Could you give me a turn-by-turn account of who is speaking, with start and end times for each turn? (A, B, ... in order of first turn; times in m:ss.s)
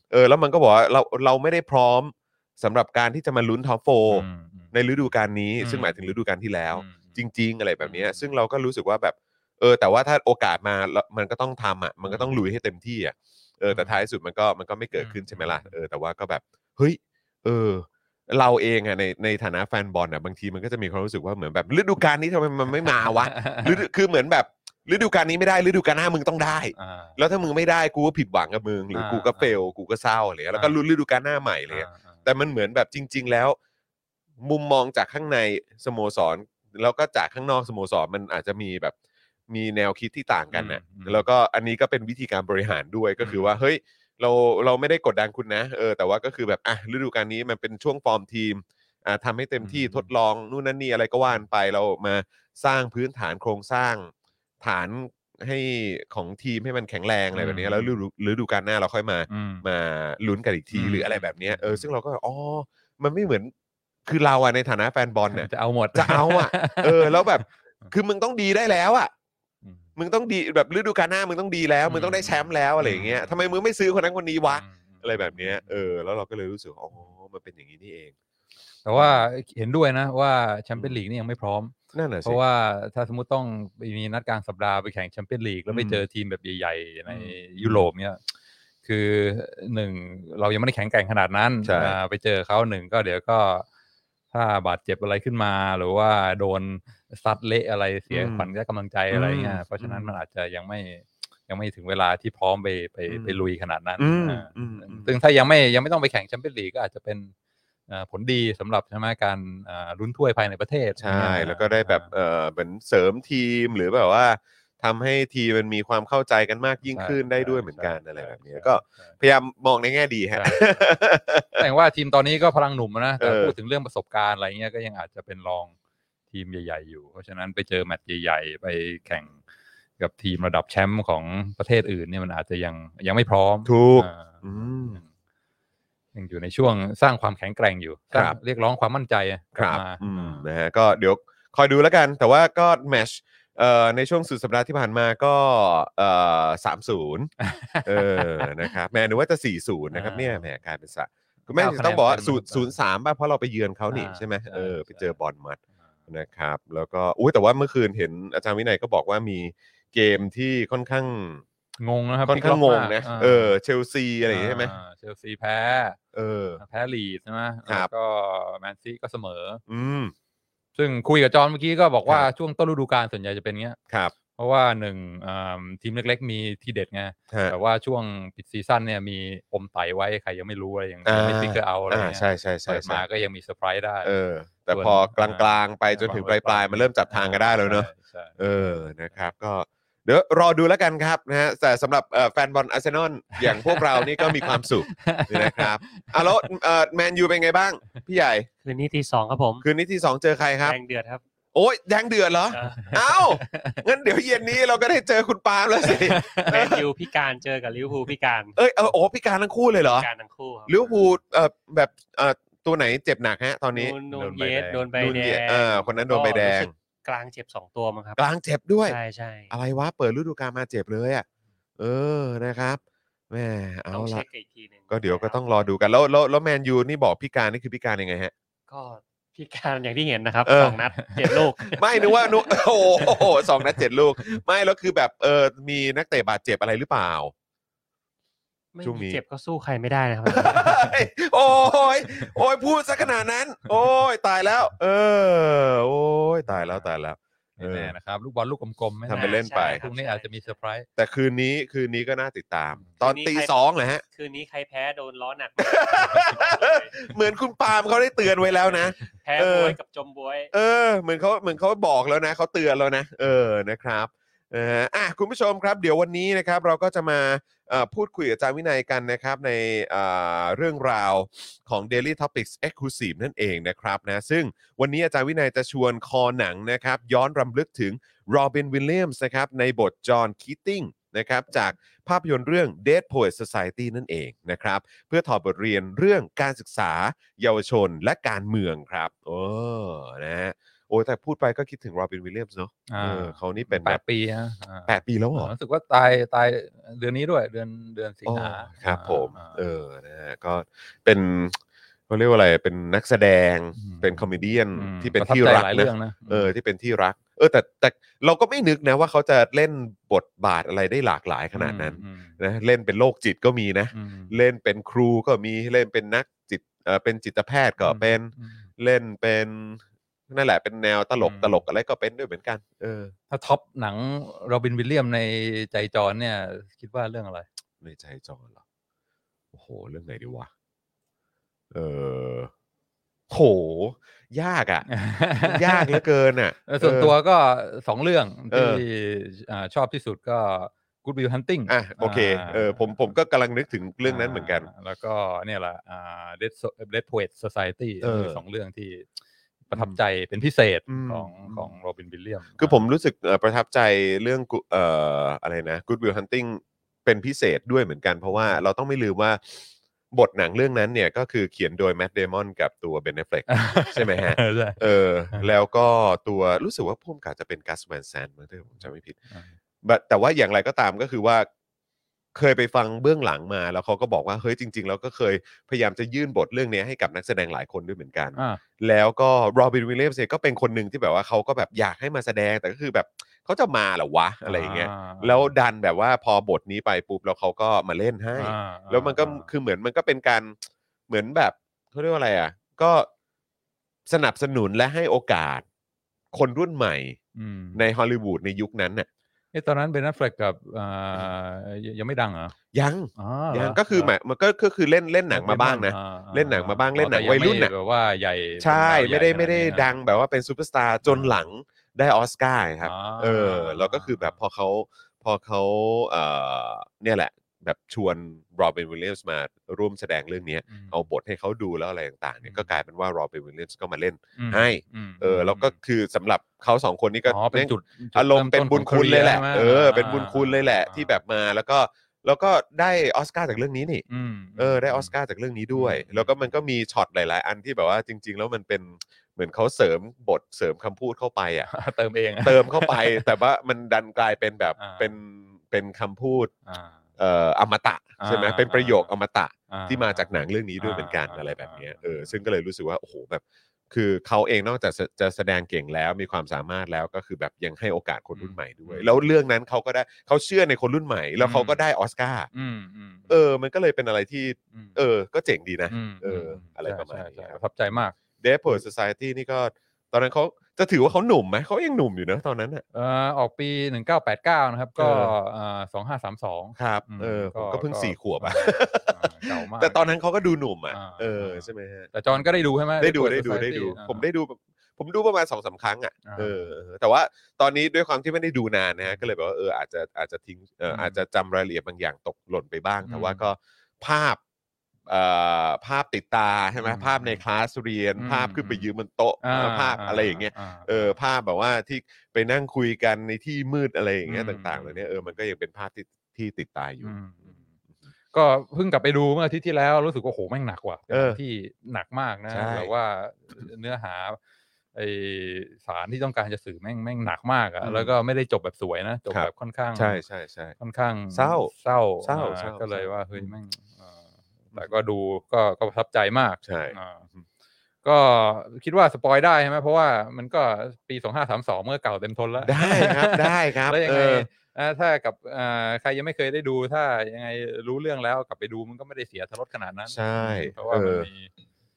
0:00.1-0:33.6 A
0:04.1-0:04.7 B
0:05.6-0:06.1 B
0:06.7-0:07.2 B
0:07.8-0:08.3 B
0:12.1-0:12.4 B
0:13.7-0:14.0 B
0:15.0-0:15.8 B
0:23.3-0:23.7 B
0:26.8-0:27.2 B
0:28.9-0:29.6 B
0:31.7-0:32.2 B
0:34.4-0:39.0 A
0:39.5-0:54.1 A
0:40.5-0:41.2 B
0:43.2-0:43.5 B
0:49.6-0:50.1 B
0:54.6-1:03.5 A
0:57.3-0:57.9 B
0:59.3-0:59.6 B
1:00.7-1:01.9 B
1:04.0-1:09.1 A
1:05.3-1:07.9 B
1:10.0-1:18.1 A
1:11.8-1:13.3 B
1:14.5-1:15.9 B
1:18.8-1:28.2 B
1:19.0-1:19.2 A
1:21.9-1:22.4 A
1:25.7-1:26.0 A
1:27.1-1:27.9 A
1:28.8-1:33.7 B
1:31.6-1:32.0 A
1:34.3-1:47.3 B
1:38.1-1:38.5 A
1:39.1-1:40.2 A
1:43.1-1:43.4 A
1:44.0-1:45.1 A
1:47.9-1:52.1 B
1:51.0-2:01.6 A
1:56.9-1:59.2 B
2:00.3-2:00.8 B
2:01.6-2:05.7 B
2:03.2-2:03.6 A
2:06.3-2:09.4 B
2:10.0-2:15.1 B
2:13.7-2:15.0 A
2:16.1-2:20.4 B
2:19.6-2:27.3 A
2:27.4-2:28.7 B
2:27.8-2:41.4 A
2:29.9-2:30.5 B
2:31.5-2:32.7 B
2:33.9-2:35.2 B
2:41.8-2:43.6 B
2:42.3-2:44.7 A
2:44.3-2:46.0 B
2:46.1-2:46.6 A
2:46.6-2:49.6 B
2:49.7-2:50.1 A
2:50.8-2:53.8 B
2:53.9-2:54.1 A
2:54.4-3:04.1 B
3:01.1-3:03.0 A
3:04.0-3:18.5 A
3:04.7-3:09.2 B
3:13.4-3:16.5 B
3:18.6-3:19.7 C
3:19.6-3:20.8 A
3:20.6-3:21.2 C
3:21.5-3:26.8 A
3:22.5-3:23.0 C
3:22.8-3:23.8 B
3:25.9-3:26.6 B
3:26.5-3:28.6 C
3:28.6-3:30.1 A
3:30.0-3:31.2 C
3:30.7-3:34.0 A
3:33.7-3:38.2 C
3:34.1-3:35.4 B
3:35.0-3:36.7 A
3:38.2-3:39.0 A
3:38.8-3:39.5 C
3:39.5-3:41.2 A
3:41.8-3:44.2 A
3:43.9-3:45.4 C
3:44.9-3:48.3 A
3:48.7-3:53.3 C
3:50.5-3:57.3 A
3:58.7-4:00.9 C
3:58.8-3:59.2 A
4:00.3-4:07.9 A
4:06.5-4:06.9 B
4:07.6-4:10.9 B
4:09.1-4:09.8 A
4:09.1-4:10.3 C
4:11.0-4:14.0 A
4:12.8-4:13.0 B
4:13.0-4:13.5 C
4:14.1-4:17.1 C
4:15.6-4:19.8 A
4:18.5-4:20.5 C
4:20.5-4:54.0 A
4:52.9-4:59.6 B
4:54.9-4:55.5 A
4:58.3-5:01.6 A
5:02.1-5:23.1 A
5:03.8-5:06.5 B
5:11.5-5:12.4 B
5:13.9-5:14.3 B
5:17.8-5:18.7 B
5:21.2-5:21.6 B
5:23.3-5:27.5 B
5:27.8-5:28.6 A
5:29.5-5:30.5 A
5:31.7-5:32.5 A
5:33.3-5:34.9 A
5:34.9-5:36.0 B
5:35.4-5:37.1 A
5:36.7-5:43.1 B
5:38.5-5:38.8 A
5:41.7-5:44.7 A
5:44.0-5:49.1 B
5:48.0-5:48.4 A
5:49.7-5:52.8 B
5:49.7-5:50.0 A
5:50.9-5:51.7 A
5:52.6-6:09.2 A
6:03.5-6:04.8 B
6:09.8-6:11.5 A
6:12.3-6:30.6 A
6:18.4-6:18.6 B
6:24.4-6:25.5 B
6:28.4-6:29.5 B
6:31.1-6:33.1 A
6:34.1-6:35.6 A
6:36.3-6:37.2 A
6:37.4-6:37.8 B
6:37.8-6:39.1 A
6:39.5-6:42.6 B
6:42.7-6:47.7 A
6:43.2-6:44.1 B
6:45.3-6:49.9 B
6:48.6-7:14.0 A
6:51.1-6:51.3 B
6:52.8-6:54.4 B
7:00.7-7:01.0 B
7:02.4-7:02.7 B
7:04.4-7:05.7 B
7:07.3-7:11.2 B
7:14.1-7:15.1 B
7:14.6-7:21.7 A
7:15.7-7:16.5 B
7:21.7-7:23.3 B
7:22.4-7:26.5 A
7:24.8-7:25.1 B
7:26.7-7:27.0 B
7:27.2-7:42.5 A
7:28.2-7:29.1 B
7:29.7-7:32.4 B
7:38.4-7:39.2 B
7:41.4-7:41.8 B
7:42.5-7:43.4 B
7:43.3-7:47.6 A
7:45.9-7:48.2 B
7:48.4-7:52.8 A
7:52.9-8:00.0 B
7:55.0-7:55.3 A
7:56.8-8:02.5 A
8:00.9-8:04.3 B
8:03.0-8:14.4 A
8:06.2-8:06.7 B
8:10.9-8:11.2 B
8:13.0-8:13.4 B
8:15.1-8:27.5 A
8:16.8-8:17.4 B
8:18.2-8:18.9 B
8:19.4-8:21.2 B
8:24.3-8:25.0 B
8:27.0-8:27.7 B
8:28.3-8:34.4 B
8:31.1-8:31.4 A
8:32.5-8:32.9 A
8:34.9-8:40.2 B
8:37.8-8:38.1 A
8:39.3-8:40.8 A
8:40.8-8:47.3 B
8:41.3-8:41.7 A
8:42.2-8:43.5 A
8:46.6-8:47.0 A
8:48.0-9:01.5 B
8:52.6-8:54.5 A
9:00.1-9:01.3 A